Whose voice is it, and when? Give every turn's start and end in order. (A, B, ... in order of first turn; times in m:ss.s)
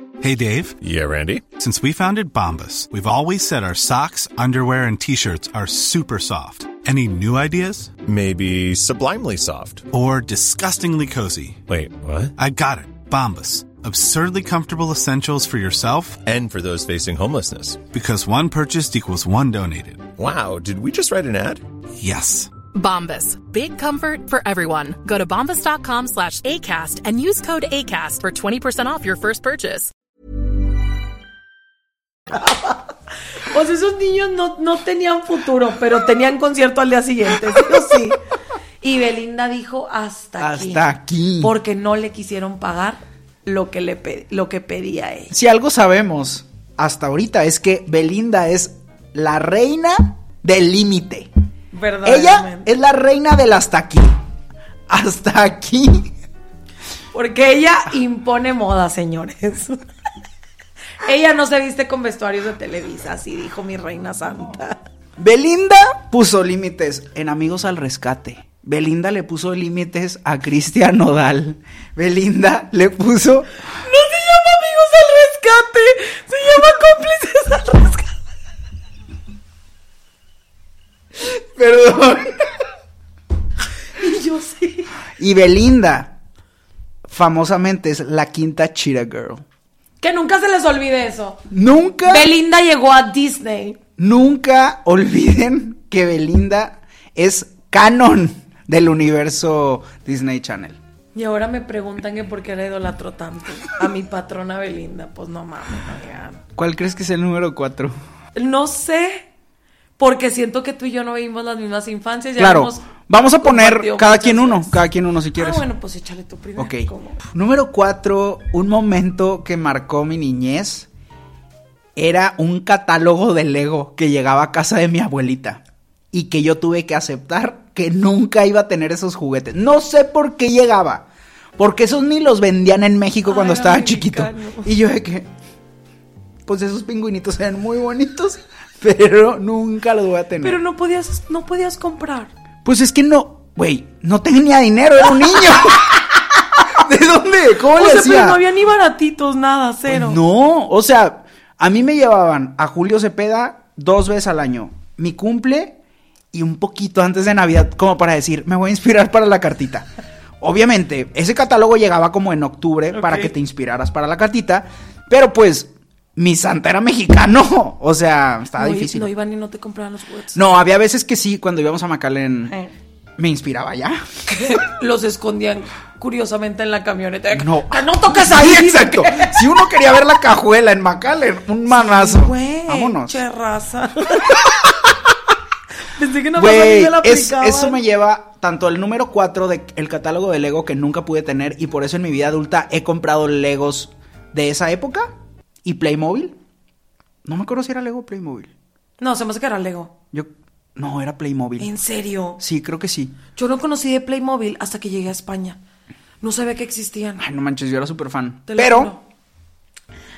0:00.2-0:00.8 A
0:00.8-0:01.4 B
0:01.6-0:07.9 A
0:08.0-0:09.9 B
0:09.9-0:11.6 A
0:11.7-0:12.3 B
0:12.4-0:16.2 A
0:16.2-0:17.9 B
0:17.9-0:20.1 A
0:20.2-0:21.6 B
0:22.0-0:22.6 A
0:22.7-0:29.9 C
0:32.3-0:32.9 D
0:33.4-0:38.2 D
0:38.8-0:40.8 D
0:40.4-0:41.5 E
0:41.4-0:45.3 D
0:45.3-0:51.3 E
0:51.7-0:52.7 D
0:52.0-0:54.2 E
0:54.9-0:56.1 E
0:57.1-0:59.8 D
1:01.0-1:04.8 D
1:05.2-1:13.5 E
1:13.8-1:18.2 D
1:21.6-1:22.4 E
1:24.0-1:24.9 D
1:25.2-1:26.2 E
1:27.1-1:29.4 E
1:30.0-1:31.4 D
1:31.5-1:32.3 E
1:32.1-1:33.8 D
1:34.0-1:40.8 E
1:41.2-1:46.4 D
1:46.6-1:48.0 E
1:48.4-1:49.3 D
1:50.0-1:54.8 D
1:52.4-1:55.6 E
1:55.4-1:57.2 D
1:56.6-2:00.9 E
2:02.0-2:11.1 E
2:11.6-2:15.3 E
2:13.3-2:14.7 D
2:16.4-2:20.6 E
2:20.4-2:22.3 D
2:22.6-2:28.4 E
2:27.8-2:30.2 D
2:29.9-2:35.8 E
2:36.3-2:39.9 E
2:40.4-2:49.1 E
2:42.9-2:43.3 D
2:48.6-2:50.4 D
2:50.3-2:52.6 E
2:53.2-2:54.0 E
2:54.3-2:59.4 D
2:57.3-3:03.2 E
3:01.7-3:04.4 D
3:06.0-3:07.8 D
3:06.4-3:15.1 E
3:15.6-3:16.4 E
3:17.2-3:18.5 E
3:19.0-3:19.9 D
3:20.1-3:21.7 E
3:21.6-3:22.4 D
3:22.4-3:23.2 E
3:23.4-3:25.6 D
3:26.2-3:27.2 D
3:27.2-3:28.9 E
3:28.5-3:29.0 D